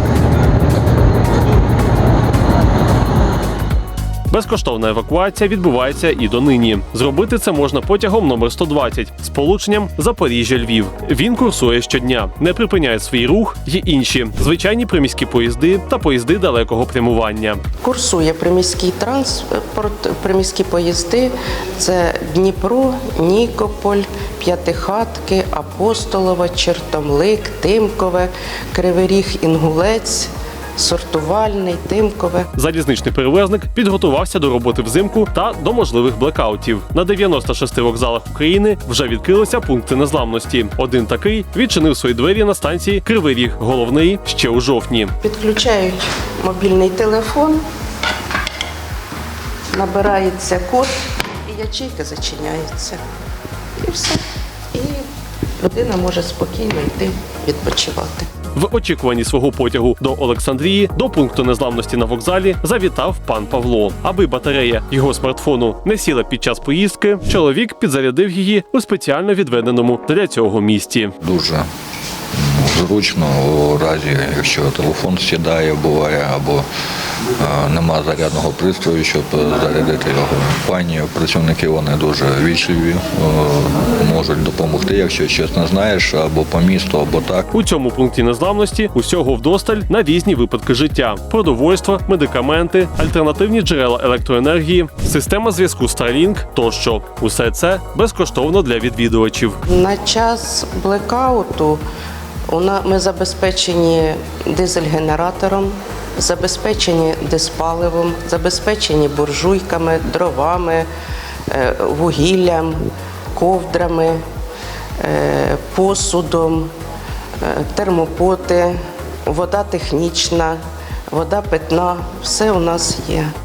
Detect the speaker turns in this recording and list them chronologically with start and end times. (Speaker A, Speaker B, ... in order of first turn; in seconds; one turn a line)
Speaker A: 4.3-17.6
Speaker B: 17.8-32.5
Speaker A: 32.5-45.1
Speaker B: 45.2-47.6
Speaker B: 49.7-50.9
Speaker B: 51.5-53.0
Speaker B: 53.8-54.2
Speaker B: 54.7-55.0
Speaker B: 55.6-58.3
Speaker A: 58.5-71.1
Speaker C: 71.2-71.7
Speaker C: 72.3-76.6
Speaker C: 77.3-87.5
Speaker A: 87.5-99.6
Speaker B: 99.7-101.8
Speaker B: 102.5-110.9
Speaker B: 111.5-114.2
Speaker B: 115.0-116.7
Speaker B: 117.4-120.6
Speaker B: 121.1-123.3